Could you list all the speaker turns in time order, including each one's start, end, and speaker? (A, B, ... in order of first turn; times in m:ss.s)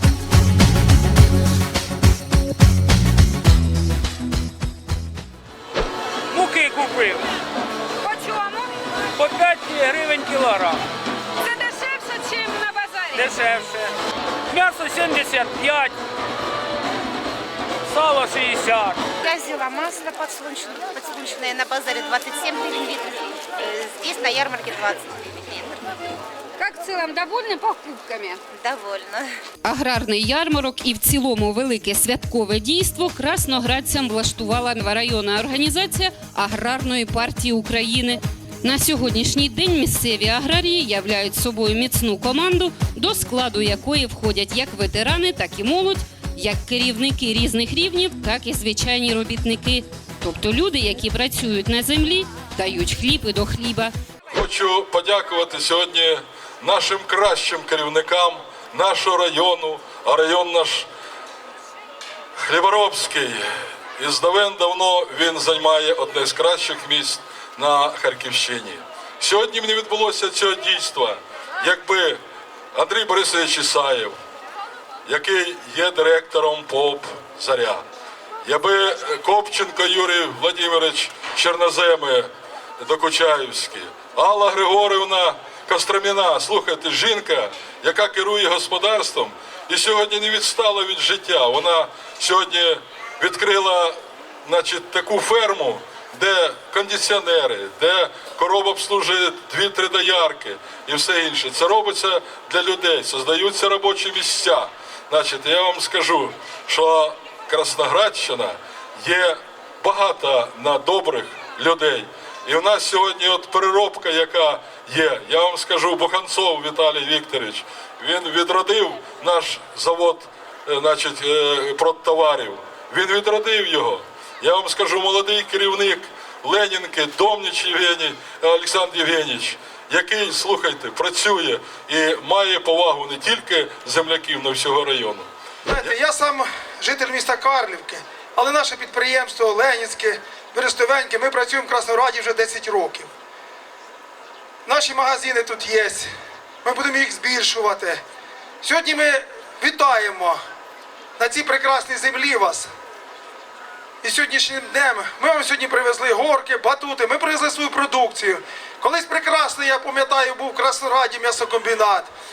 0:06.3-0:07.3 A
0:08.0-0:08.7 B
0:09.2-0:10.8 A
0:11.4-0:13.4 B
0:13.1-0:13.9 A
0:14.5-0:15.9 A
0:17.9-0:19.0 A
0:19.2-0:25.8 C
0:26.6-0:28.4 B
0:28.5-0:29.3 C
0:29.6-0:53.9 D
0:54.3-1:00.9 E
1:02.5-1:03.5 E
1:04.0-1:12.2 E
1:12.7-1:14.2 E
1:15.0-1:17.8 E
1:18.4-1:22.3 E
1:22.8-2:16.0 E
2:15.9-2:23.1 F
2:24.7-2:26.1 F
2:26.6-2:28.0 F
2:28.6-2:30.4 F
2:31.2-2:32.7 F
2:34.0-2:42.1 F